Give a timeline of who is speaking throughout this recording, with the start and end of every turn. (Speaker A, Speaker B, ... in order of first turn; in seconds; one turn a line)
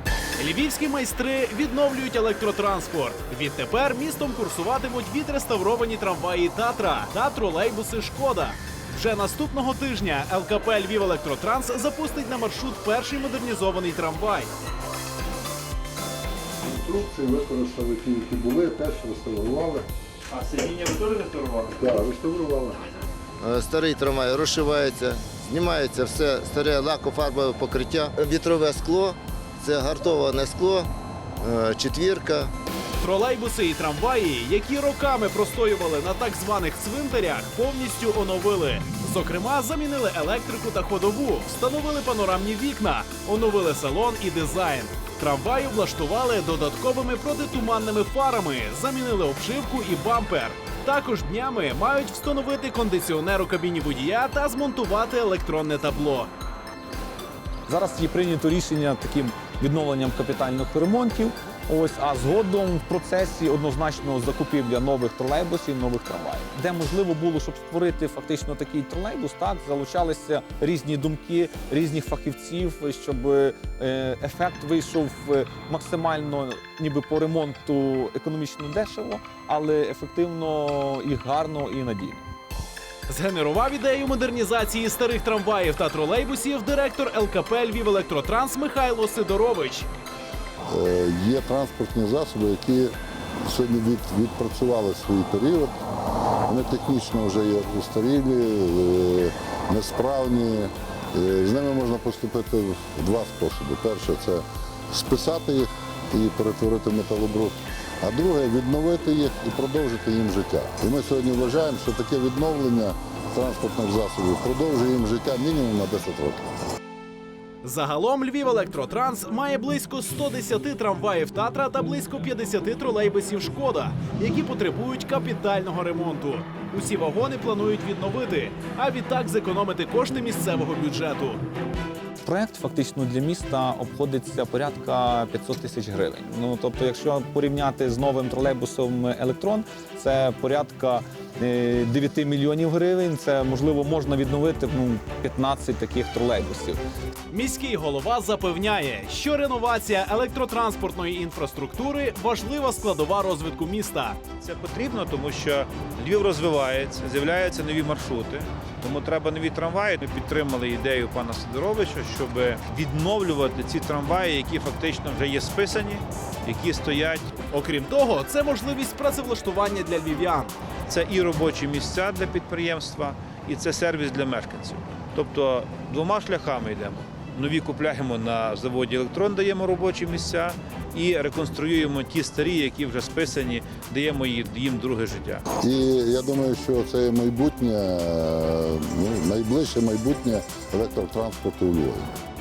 Speaker A: 0.4-14.5
Speaker B: 16.6-19.9
Speaker C: 20.3-21.8
Speaker B: 21.8-22.8
Speaker D: 23.4-32.5
Speaker A: 33.0-56.3
Speaker E: 57.7-82.2
Speaker A: 83.1-89.9
Speaker B: 90.7-95.7
Speaker B: 96.5-116.4
Speaker A: 117.6-131.4
Speaker E: 132.2-146.8
Speaker A: 147.3-154.2
Speaker C: 154.4-167.3
Speaker A: 167.5-170.5
Speaker C: 170.9-185.4
Speaker B: 185.6-192.1